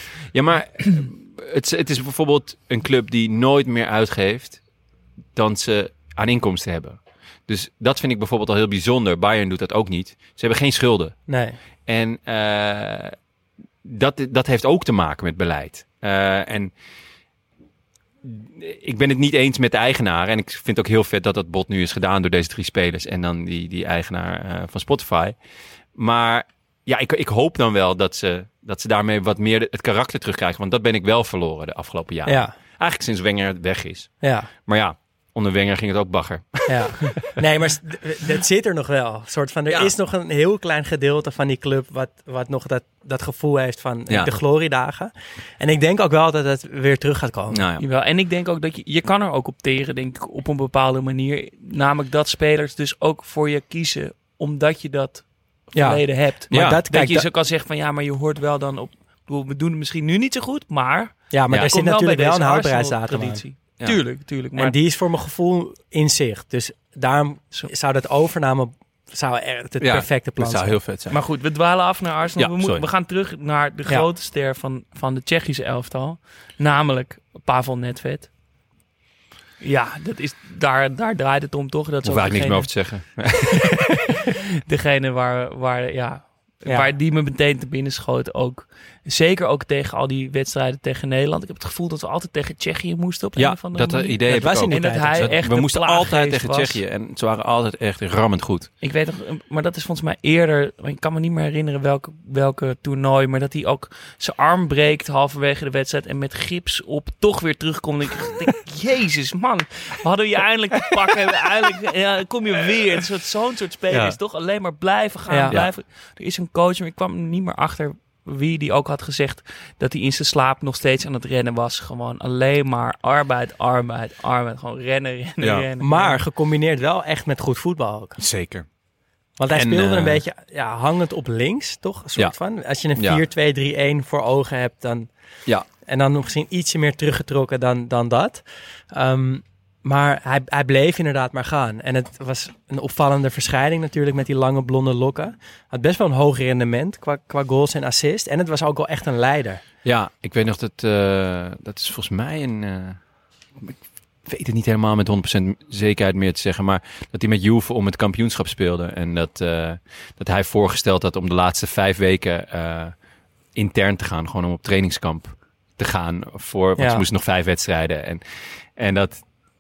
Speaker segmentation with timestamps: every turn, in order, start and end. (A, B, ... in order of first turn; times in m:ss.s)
0:00.3-0:04.6 A
0:05.3-0:11.2 A
0:11.3-0:11.6 B
0:11.9-0:13.1 A
0:13.8-0:16.7 A
0:18.2-0:25.4 A
0:25.9-0:37.2 A
0:32.2-0:32.5 B
0:34.2-0:34.5 B
0:36.7-0:47.6 B
0:39.7-0:39.9 A
0:47.5-0:47.9 A
0:47.8-1:04.8 C
0:55.7-0:57.3 B
0:56.5-0:56.8 A
1:01.3-1:03.4 B
1:01.5-1:01.8 A
1:04.6-1:10.8 B
1:09.8-1:11.2 A
1:11.1-1:18.3 C
1:12.4-1:12.8 A
1:19.6-1:23.0 C
1:22.0-1:23.8 A
1:24.7-1:36.8 C
1:26.6-1:26.9 B
1:33.4-1:38.7 A
1:34.3-1:35.3 B
1:38.8-2:06.2 C
1:53.9-1:54.2 A
1:55.3-1:55.6 B
2:05.4-2:05.7 A
2:05.8-2:08.2 B
2:08.2-2:08.7 A
2:09.4-2:15.1 B
2:09.5-2:10.2 A
2:13.0-2:13.2 A
2:15.8-2:29.6 B
2:29.8-2:33.0 A
2:33.6-2:42.9 A
2:43.5-2:49.2 A
2:46.8-2:47.0 B